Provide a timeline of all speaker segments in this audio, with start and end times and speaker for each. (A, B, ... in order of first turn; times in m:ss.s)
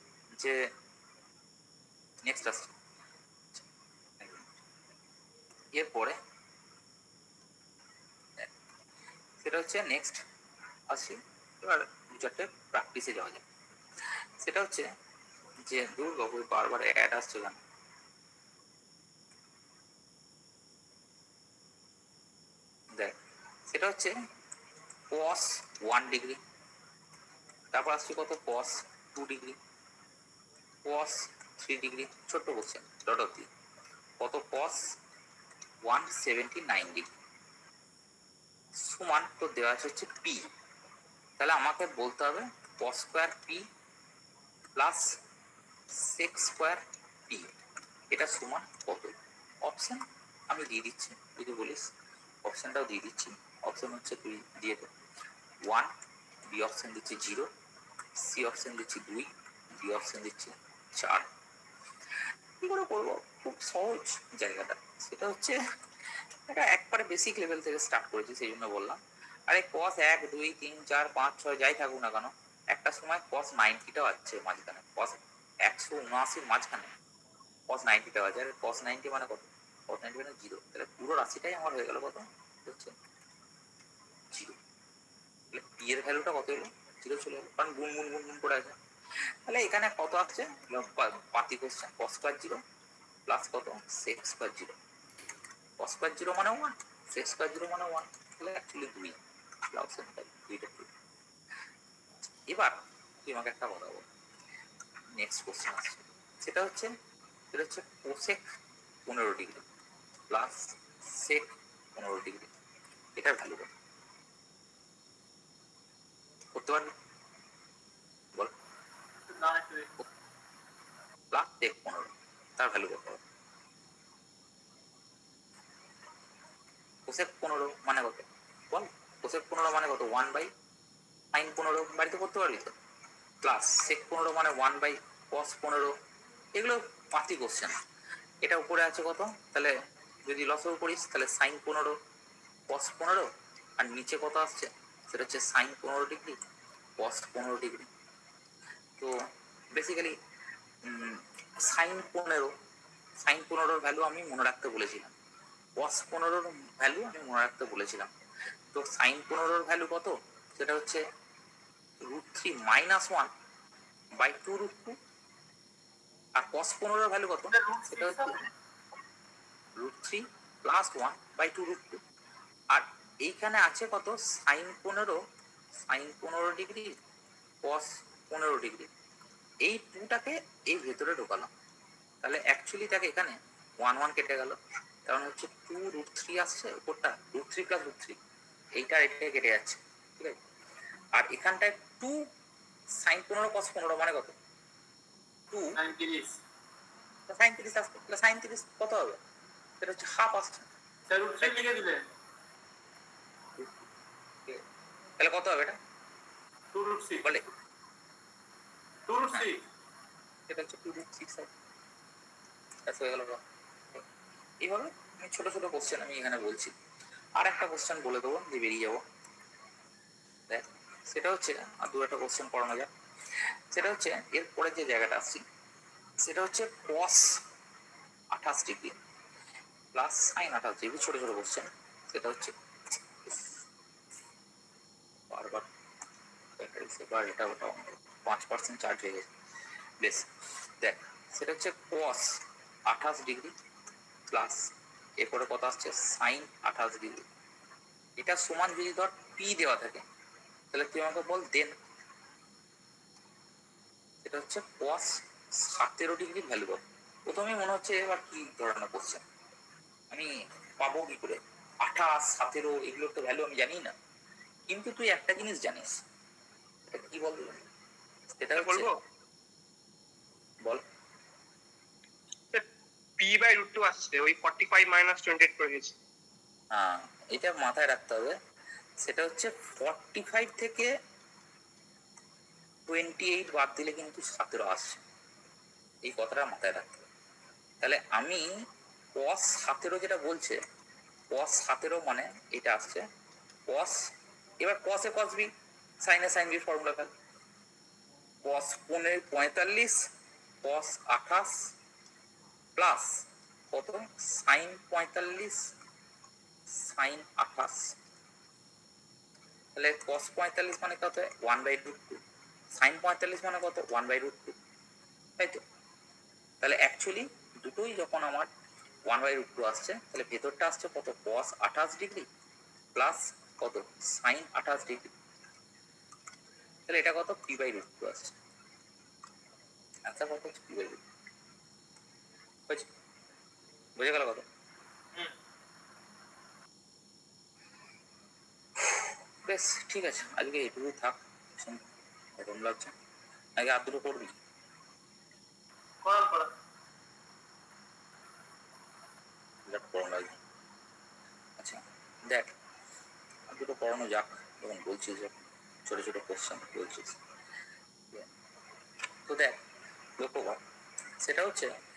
0:00.4-0:00.7 A
0:02.2-0:02.7 A
0:04.2-0:04.6 A
0:05.8-0:06.2 A
0:09.4-0:10.2 A
0:10.9-0:13.4 A
0:14.4-0:14.9 A
0:15.6-0:17.6 A
0:23.7-0:24.1 A
0:25.1-0:26.4 A
0:27.7-0:29.6 A
0:30.8-0:33.5 A
0:34.2-0:35.0 A
0:35.8-0:37.1 A
0:38.8-0:40.5 A
0:41.4-0:43.6 A
0:44.8-0:45.2 A
0:45.9-0:47.5 A
0:48.1-0:51.9 A
0:52.4-0:54.9 A
0:55.6-0:55.9 A
0:56.5-0:57.5 A
0:58.2-1:01.3 A
1:02.6-1:05.6 A
1:06.5-1:16.9 A
1:17.7-1:22.9 A
1:24.3-1:24.6 A
1:25.5-1:28.8 A
1:29.4-1:32.6 A
1:33.3-1:34.8 A
1:35.8-1:39.2 A
1:39.7-1:40.9 A
1:42.5-1:44.0 A
1:45.2-1:46.9 A
1:47.5-1:48.4 A
1:49.1-1:49.6 A
1:50.3-1:52.5 A
1:53.2-1:53.7 A
1:56.5-1:56.9 A
1:59.3-1:59.9 B
2:01.3-2:03.2 A
2:07.1-2:10.5 A
2:11.3-2:12.7 A
2:13.4-2:15.9 A
2:16.5-2:17.8 A
2:18.4-2:19.7 A
2:20.3-2:22.0 A
2:22.7-2:26.4 A
2:27.0-2:27.9 A
2:29.7-2:30.1 A
2:30.8-2:32.5 A
2:33.2-2:35.1 A
2:35.8-2:38.1 A
2:38.7-2:41.0 A
2:42.0-2:43.3 A
2:44.2-2:45.0 A
2:46.4-2:48.4 A
2:47.5-2:48.4 B
2:49.8-2:52.0 A
2:52.7-2:55.2 A
2:55.8-2:56.9 A
2:57.6-2:58.9 A
2:59.6-3:01.5 A
3:02.2-3:08.2 A
3:08.8-3:10.4 A
3:11.1-3:12.2 A
3:13.0-3:14.3 A
3:15.5-3:15.8 A
3:15.7-3:16.4 B
3:17.3-3:19.2 A
3:19.8-3:20.7 A
3:21.1-3:22.0 B
3:21.4-3:21.7 A
3:25.2-3:25.8 A
3:26.7-3:27.2 B
3:29.1-3:29.6 B
3:30.5-3:31.5 A
3:32.9-3:33.4 A
3:34.6-3:36.7 A
3:37.4-3:39.0 A
3:40.5-3:42.9 A
3:43.7-3:45.4 A
3:46.2-3:47.4 A
3:48.3-3:48.9 A
3:49.9-3:52.5 A
3:53.2-3:53.6 A
3:55.3-3:55.7 A
3:56.6-3:59.3 A
4:00.0-4:03.5 A
4:04.3-4:07.2 A
4:08.2-4:10.0 A
4:10.7-4:11.7 A
4:14.2-4:19.2 A
4:20.1-4:23.9 A
4:24.7-4:26.0 A
4:26.9-4:27.6 A
4:28.4-4:28.9 A
4:28.6-4:29.0 C
4:33.2-4:35.9 C
4:36.7-4:38.4 A
4:39.0-4:40.9 A
4:42.9-4:45.0 A
4:46.0-4:47.0 A
4:47.8-4:48.4 A
4:49.1-4:50.6 A
4:51.3-4:53.0 A
4:53.7-4:54.1 A
4:54.6-4:55.5 A
4:56.0-4:57.1 A
4:58.4-5:00.1 A
5:00.6-5:01.7 A
5:02.8-5:05.7 A
5:06.7-5:07.9 A
5:09.8-5:12.2 A
5:12.7-5:14.6 A
5:15.4-5:15.6 A
5:16.6-5:18.5 A
5:19.1-5:22.3 A
5:23.0-5:25.1 A
5:26.9-5:28.4 A
5:30.0-5:31.0 A
5:34.0-5:34.4 A
5:38.8-5:41.8 A
5:42.4-5:42.9 A
5:43.6-5:44.3 A
5:46.0-5:46.5 B
5:49.7-5:50.4 A
5:51.6-5:52.5 A
5:53.5-5:57.2 A
5:59.3-5:59.6 A
6:00.2-6:00.6 A
6:01.2-6:01.7 A